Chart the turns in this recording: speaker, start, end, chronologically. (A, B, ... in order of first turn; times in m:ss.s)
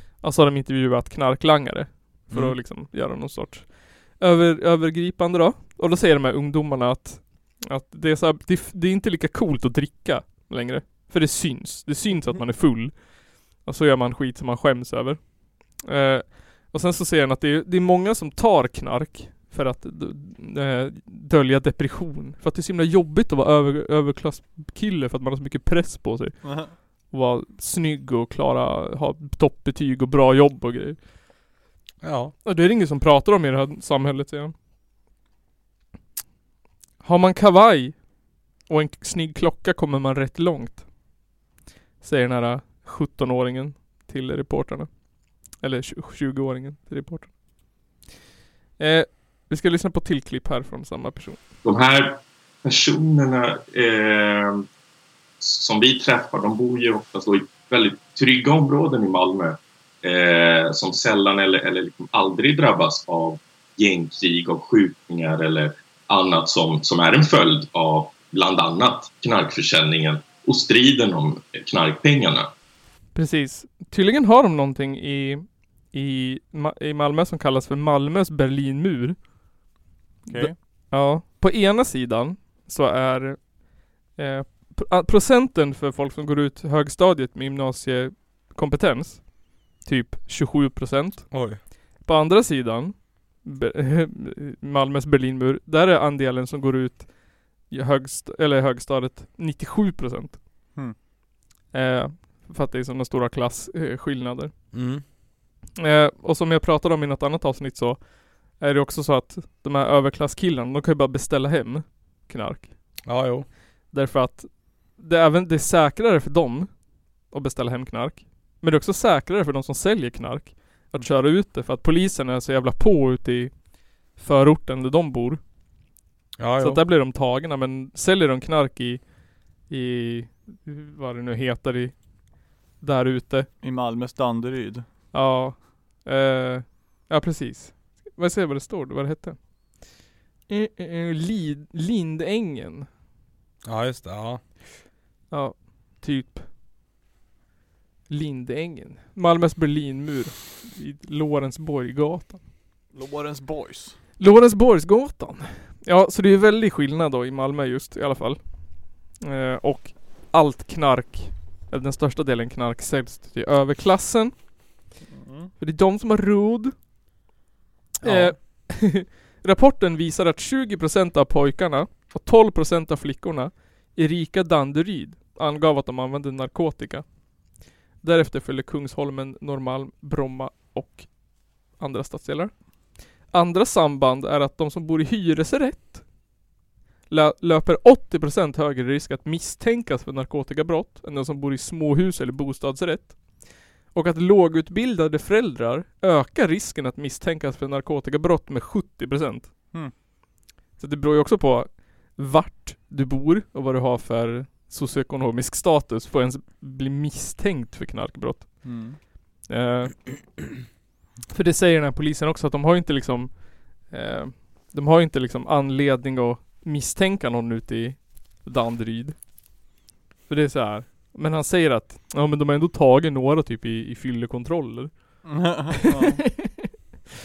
0:00.2-0:13.1 A
0:02.3-0:02.6 B
0:13.6-0:31.0 A
0:26.4-0:26.7 C
0:32.0-0:32.3 B
0:32.4-0:34.5 A
0:37.0-0:38.0 A
0:38.7-0:40.8 A
0:42.0-0:44.9 A
0:45.6-0:47.3 A
0:48.8-0:51.4 A
0:51.6-0:54.6 D
0:55.4-1:12.5 D
1:13.2-1:19.2 A
1:20.3-1:20.6 C
1:20.3-1:23.5 A
1:24.2-1:29.3 A
1:29.8-1:31.3 A
1:31.3-1:31.6 B
1:32.0-1:37.1 A
1:37.7-1:40.4 A
1:41.7-1:44.5 A
1:44.7-1:45.0 B
1:45.8-1:48.0 A
1:48.6-1:52.7 A
1:53.1-1:53.5 B
1:53.9-1:56.7 A
1:57.3-2:03.5 A
2:04.2-2:05.4 A
2:06.4-2:06.8 B
2:06.6-2:09.0 A
2:09.7-2:12.0 A
2:12.8-2:13.5 A
2:13.6-2:14.9 C
2:15.1-2:19.4 A
2:20.5-2:22.9 A
2:23.6-2:24.4 B
2:25.3-2:26.5 A
2:28.1-2:32.4 A
2:32.9-2:34.0 C
2:34.2-2:38.4 A
2:39.2-2:44.3 A
2:45.1-2:45.5 C
2:45.6-2:46.7 A
2:48.0-2:48.4 B
2:48.0-2:57.1 A
2:58.0-3:01.1 A
3:01.7-3:02.5 A
3:03.3-3:06.1 A
3:07.1-3:19.5 A
3:20.8-3:28.9 A
3:28.6-3:29.0 C
3:29.5-3:30.0 A
3:31.3-3:39.2 A
3:40.3-3:45.3 A
3:45.2-3:46.3 C
3:46.0-3:46.7 A